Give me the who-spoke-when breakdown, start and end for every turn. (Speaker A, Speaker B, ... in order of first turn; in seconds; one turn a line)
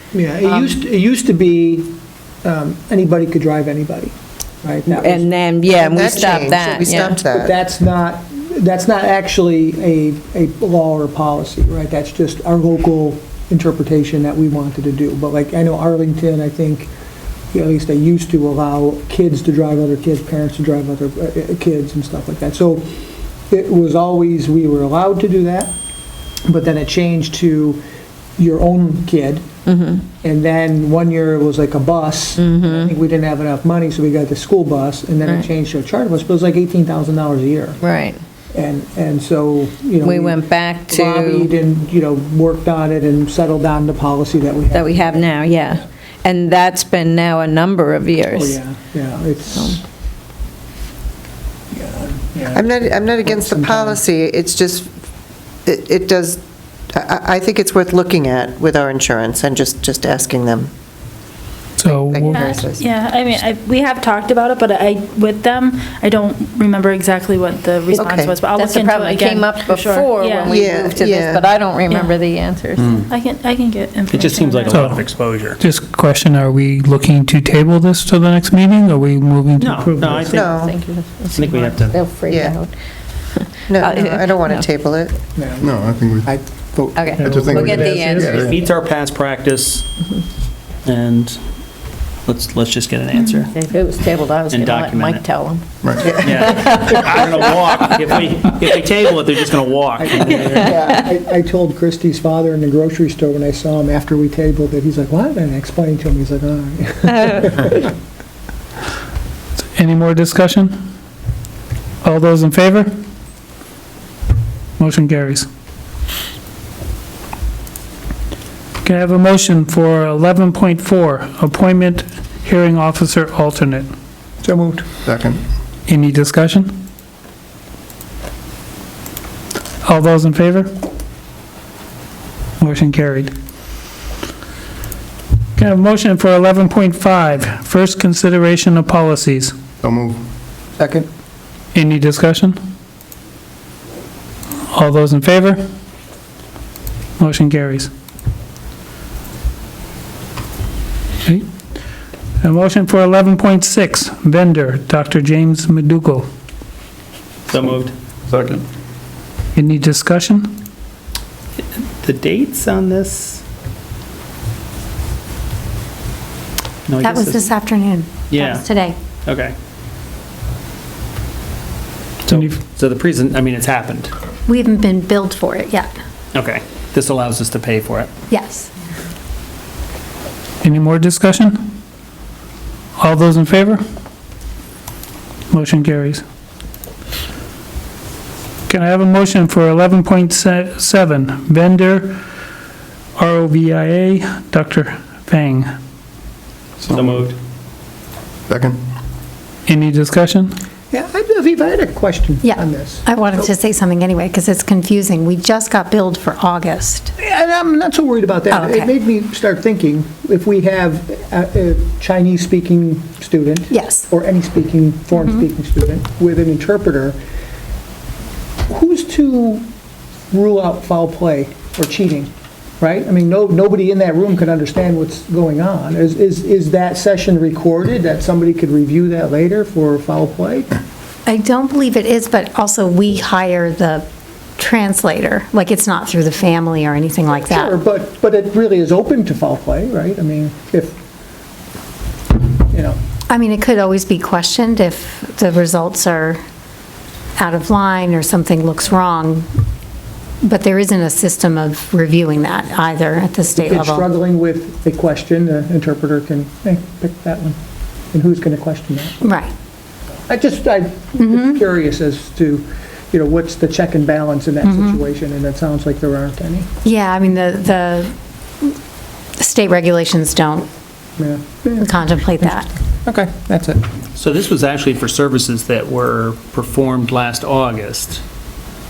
Speaker A: 0.1-6.4
Speaker B: 4.9-7.2
Speaker C: 6.0-7.5
Speaker A: 7.2-16.9
Speaker A: 17.5-23.0
Speaker A: 23.5-25.7
Speaker A: 26.4-27.8
Speaker A: 28.4-29.5
Speaker B: 29.6-30.0
Speaker A: 30.2-37.8
Speaker B: 32.4-32.9
Speaker B: 37.8-38.2
Speaker A: 38.5-45.3
Speaker B: 40.0-41.5
Speaker B: 44.7-48.6
Speaker A: 48.3-49.8
Speaker A: 51.7-54.0
Speaker C: 52.5-54.9
Speaker C: 55.6-56.4
Speaker C: 56.9-60.7
Speaker D: 61.8-62.6
Speaker C: 62.1-62.8
Speaker E: 62.3-70.6
Speaker C: 68.0-68.3
Speaker B: 68.5-73.0
Speaker C: 70.5-71.4
Speaker E: 73.1-75.0
Speaker F: 74.1-75.6
Speaker D: 74.7-75.0
Speaker D: 75.6-80.4
Speaker F: 79.6-80.4
Speaker A: 80.0-80.3
Speaker C: 80.3-80.7
Speaker B: 80.3-82.7
Speaker F: 81.3-82.0
Speaker C: 83.7-85.2
Speaker B: 83.7-84.7
Speaker A: 85.3-87.9
Speaker G: 85.6-86.3
Speaker B: 87.0-88.5
Speaker G: 87.2-88.6
Speaker D: 87.7-88.3
Speaker F: 88.3-89.8
Speaker F: 90.8-91.4
Speaker F: 92.2-93.5
Speaker B: 93.4-95.6
Speaker F: 94.5-95.2
Speaker G: 95.8-96.1
Speaker F: 96.1-100.7
Speaker B: 96.2-97.2
Speaker A: 100.0-107.9
Speaker D: 109.8-110.7
Speaker D: 112.0-112.9
Speaker D: 114.8-115.5
Speaker D: 118.8-123.9
Speaker A: 124.4-124.9
Speaker G: 125.0-125.4
Speaker D: 125.9-126.7
Speaker D: 129.8-130.7
Speaker D: 132.6-133.3
Speaker D: 135.6-139.5
Speaker G: 139.8-140.2
Speaker A: 140.8-141.0
Speaker D: 141.7-142.6
Speaker D: 144.7-145.6
Speaker D: 147.2-147.9
Speaker D: 152.4-156.2
Speaker F: 157.5-157.9
Speaker G: 158.3-158.6
Speaker D: 159.6-160.6
Speaker F: 162.0-163.4
Speaker F: 166.9-167.4
Speaker H: 167.0-168.9
Speaker F: 168.3-168.6
Speaker F: 169.2-169.5
Speaker F: 172.2-174.1
Speaker D: 172.3-172.6
Speaker H: 174.5-175.9
Speaker F: 176.3-178.1
Speaker H: 178.3-178.7
Speaker D: 180.6-181.6
Speaker D: 183.0-183.8
Speaker D: 185.5-186.2
Speaker D: 188.7-192.2
Speaker D: 193.2-195.7
Speaker G: 196.8-197.3
Speaker F: 196.9-197.3
Speaker G: 198.5-198.8
Speaker D: 199.7-200.5
Speaker A: 200.9-203.0
Speaker H: 202.4-207.1
Speaker A: 207.2-217.2
Speaker H: 208.5-208.9
Speaker H: 213.7-214.1
Speaker A: 218.7-219.7
Speaker A: 220.3-230.7
Speaker H: 231.2-234.1
Speaker H: 234.6-237.7
Speaker A: 237.4-241.0
Speaker A: 242.7-243.0
Speaker H: 243.3-246.4
Speaker H: 247.4-249.5
Speaker H: 250.4-254.1
Speaker A: 253.5-257.6
Speaker A: 258.1-259.3
Speaker H: 259.2-259.5
Speaker A: 260.3-266.7
Speaker H: 261.2-261.6
Speaker H: 264.6-265.0
Speaker H: 266.8-268.7
Speaker H: 269.4-270.7
Speaker A: 271.2-273.8
Speaker H: 271.8-272.7
Speaker F: 274.1-278.2